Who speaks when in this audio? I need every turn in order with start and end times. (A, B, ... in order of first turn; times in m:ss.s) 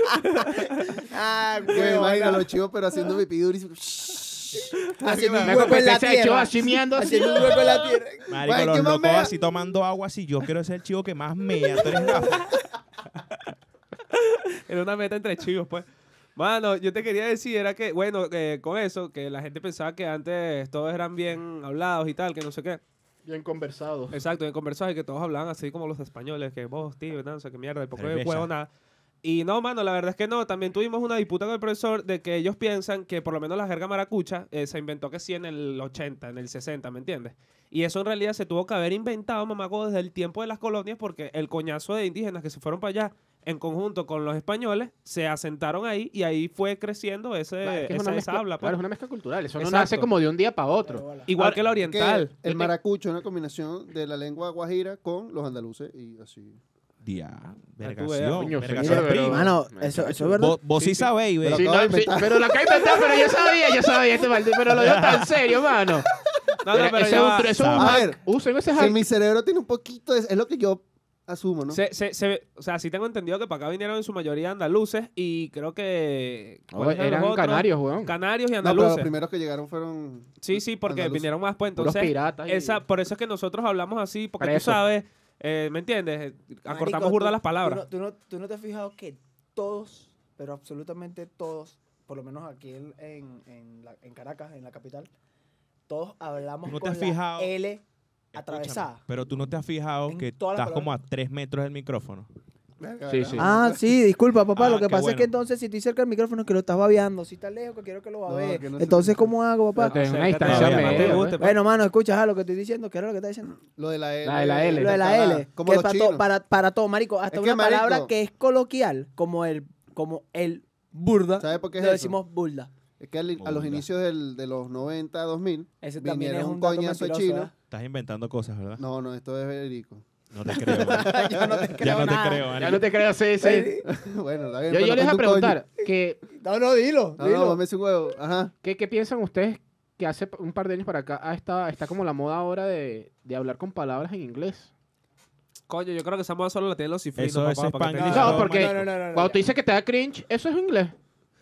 0:00.3-0:00.8 A
0:01.0-0:02.5 B
0:01.7-0:04.7 C
0:04.5-0:08.3 B
0:05.0-0:05.8 A
0:05.4-0:07.7 D
0:08.3-0:12.5 E
0:08.4-0:09.3 C
0:11.9-0:12.3 B
0:14.1-0:15.8 A
0:16.4-0:22.8 A
0:23.2-0:24.2 D
0:24.1-0:28.7 A
0:28.0-0:28.5 E
0:29.2-0:48.8 A
0:47.6-0:51.1 D
0:49.6-0:50.1 A
0:50.8-0:51.3 B
0:51.3-0:52.7 A
0:51.8-0:56.6 C
0:57.0-0:59.5 E
0:57.8-0:58.5 A
0:58.2-1:00.4 D
0:58.8-1:00.6 B
1:00.4-1:01.7 E
1:00.8-1:01.1 A
1:01.4-1:02.8 C
1:01.4-1:06.1 D
1:04.7-1:05.3 E
1:06.6-1:07.6 A
1:06.7-1:09.0 D
1:07.4-1:08.0 E
1:07.8-1:11.8 C
1:11.7-1:19.1 A
1:16.7-1:18.1 D
1:18.6-1:21.3 C
1:20.4-1:27.8 A
1:21.8-1:22.8 D
1:24.4-1:24.8 D
1:26.7-1:35.1 B
1:35.9-1:37.8 B
1:36.7-1:37.5 E
1:38.3-1:39.0 B
1:38.3-1:42.3 E
1:40.1-1:40.9 B
1:42.8-1:43.9 C
1:43.1-1:43.5 D
1:43.4-1:50.0 B
1:44.6-1:45.3 E
1:48.2-1:49.3 C
1:49.8-1:51.4 D
1:49.8-1:51.6 A
1:50.4-1:51.2 E
1:51.4-1:53.6 B
1:53.7-1:56.2 C
1:54.2-1:55.1 D
1:54.8-2:02.7 B
1:57.3-1:58.1 C
2:01.4-2:02.2 C
2:03.0-2:07.5 C
2:03.4-2:03.9 E
2:05.8-2:07.5 B
2:07.7-2:08.8 E
2:08.8-2:10.0 C
2:10.3-2:12.9 E
2:10.5-2:12.7 B
2:10.7-2:11.8 C
2:12.6-2:13.7 D
2:13.4-2:13.8 B
2:13.9-2:15.6 C
2:14.7-2:16.2 D
2:15.8-2:17.6 B
2:17.2-2:18.5 C
2:18.6-2:24.7 D
2:25.7-2:28.5 A
2:27.2-2:28.8 E
2:28.0-2:29.4 B
2:28.1-2:30.9 D